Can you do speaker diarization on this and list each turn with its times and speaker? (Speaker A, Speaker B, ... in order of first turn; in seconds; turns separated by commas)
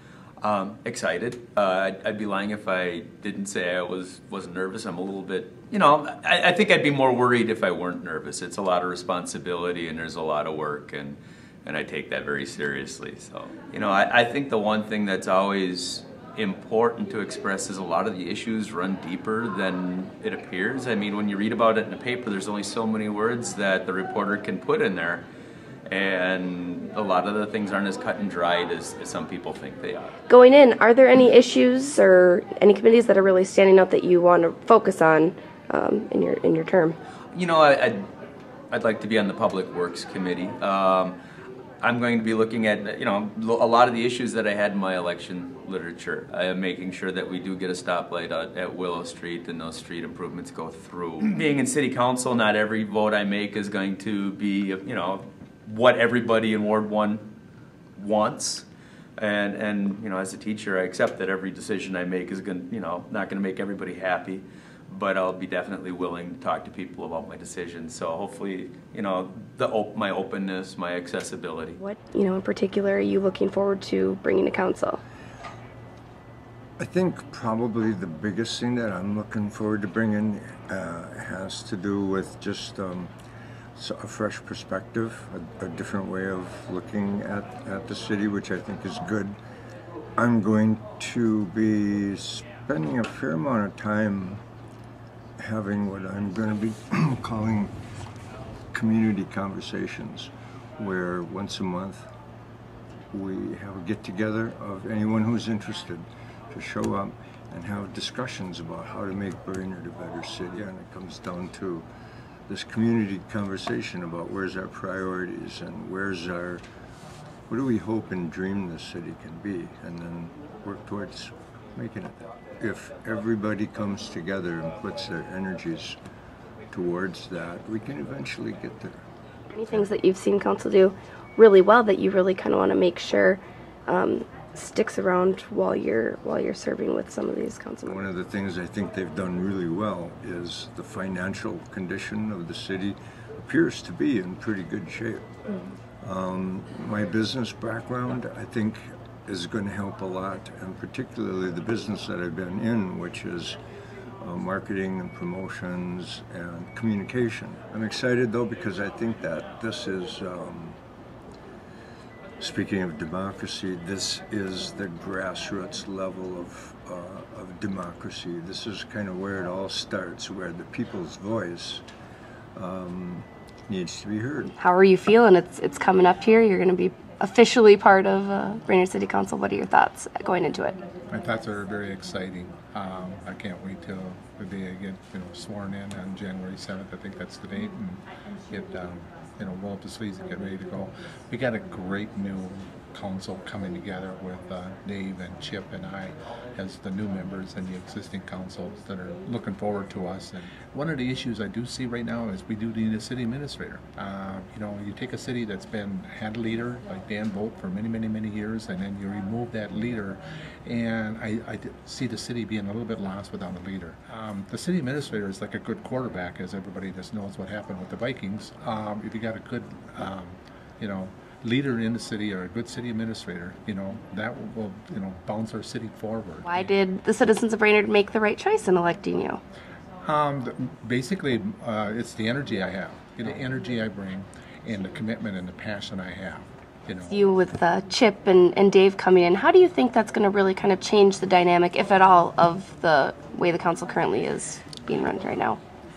Speaker A: 0.4-25.2, Speaker A: 25.9-30.1, Speaker B: 30.3-37.0, Speaker A: 37.3-38.1, Speaker A: 38.7-41.2, Speaker A: 41.8-57.2, Speaker A: 58.0-58.7, Speaker A: 59.2-71.8, Speaker B: 71.8-75.0, Speaker C: 76.8-83.1, Speaker C: 83.8-89.4, Speaker C: 90.2-94.4, Speaker C: 95.4-97.7, Speaker C: 98.7-102.1, Speaker C: 103.1-111.9, Speaker C: 112.5-116.6, Speaker C: 117.5-126.0, Speaker C: 126.7-129.0, Speaker B: 129.5-138.1, Speaker C: 137.9-145.2, Speaker C: 146.0-153.6, Speaker C: 154.2-160.8, Speaker C: 162.4-171.8, Speaker C: 172.6-174.5, Speaker B: 174.6-180.8, Speaker D: 181.1-226.7, Speaker B: 226.5-229.4, Speaker D: 230.0-237.2, Speaker B: 237.1-245.6